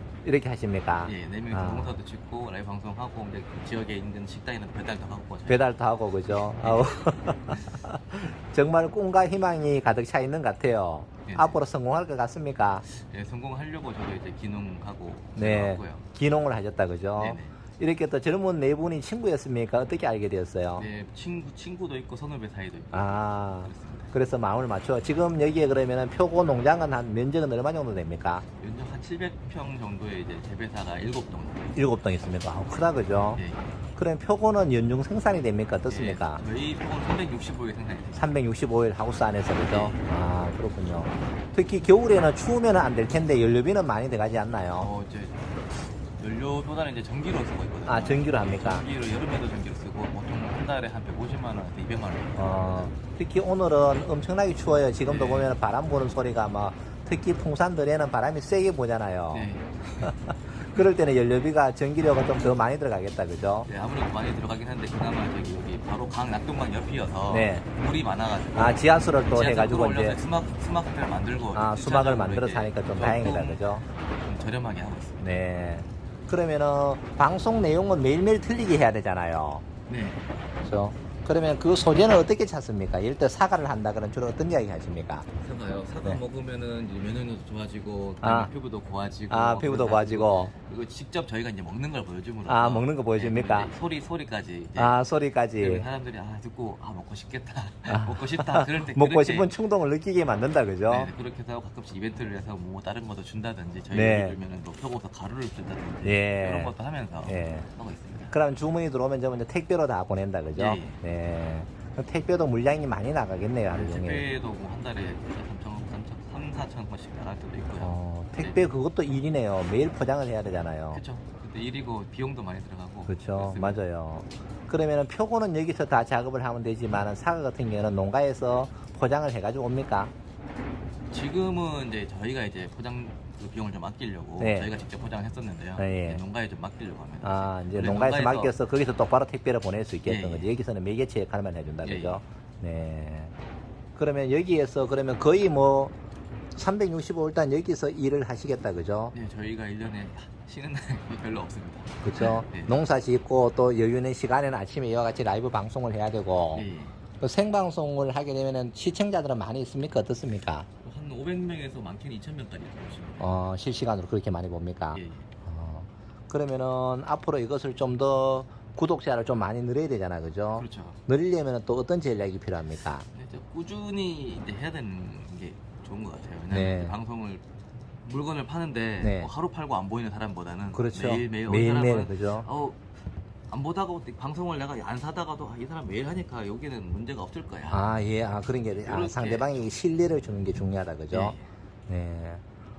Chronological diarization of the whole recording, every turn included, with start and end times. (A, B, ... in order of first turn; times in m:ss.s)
0:00.2-0:02.0 A
0:01.0-0:05.8 B
0:05.5-0:12.8 A
0:06.3-0:07.7 B
0:11.2-0:11.6 B
0:12.8-0:16.0 B
0:15.4-0:20.9 A
0:17.2-0:17.6 B
0:20.8-0:24.1 B
0:22.9-0:28.4 A
0:28.6-0:31.8 B
0:31.7-0:33.4 A
0:33.3-0:33.7 B
0:33.9-0:36.4 A
0:35.8-0:38.4 B
0:38.2-0:44.9 A
0:39.7-0:40.0 B
0:44.7-0:52.9 B
0:47.8-0:48.9 A
0:52.4-0:59.5 A
0:55.0-0:55.6 B
0:59.3-1:00.1 B
1:00.0-1:03.7 A
1:03.7-1:15.4 B
1:07.3-1:07.6 A
1:08.5-1:10.2 A
1:11.5-1:13.8 A
1:15.2-1:19.6 A
1:19.9-1:20.2 B
1:20.6-1:25.2 A
1:25.4-1:35.0 B
1:28.2-1:28.5 A
1:29.3-1:30.5 A
1:32.4-1:33.7 A
1:34.8-1:35.8 A
1:35.6-1:39.6 B
1:37.9-1:41.1 A
1:40.9-1:48.4 B
1:43.9-1:44.4 A
1:46.0-1:47.7 A
1:48.3-1:54.3 A
1:50.6-1:51.0 B
1:53.7-1:58.7 B
1:57.8-2:01.0 A
2:00.9-2:03.8 B
2:03.0-2:10.1 A
2:11.1-2:18.6 B
2:14.4-2:14.7 A
2:15.8-2:16.2 A
2:17.2-2:23.3 A
2:20.0-2:20.5 B
2:21.8-2:22.2 B
2:23.9-2:26.0 A
2:26.5-2:29.1 A
2:29.1-2:32.8 B
2:32.0-2:40.7 A
2:36.5-2:37.0 B
2:40.8-2:43.4 B
2:43.2-2:53.1 A
2:44.9-2:45.3 B
2:50.6-2:51.0 B
2:53.1-2:57.4 B
2:56.5-2:57.0 A
2:58.0-3:02.8 B
2:59.0-2:59.3 A
3:00.7-3:02.5 A
3:03.5-3:08.0 B
3:07.7-3:11.4 A
3:08.8-3:09.7 B
3:11.1-3:11.4 B
3:11.9-3:12.4 A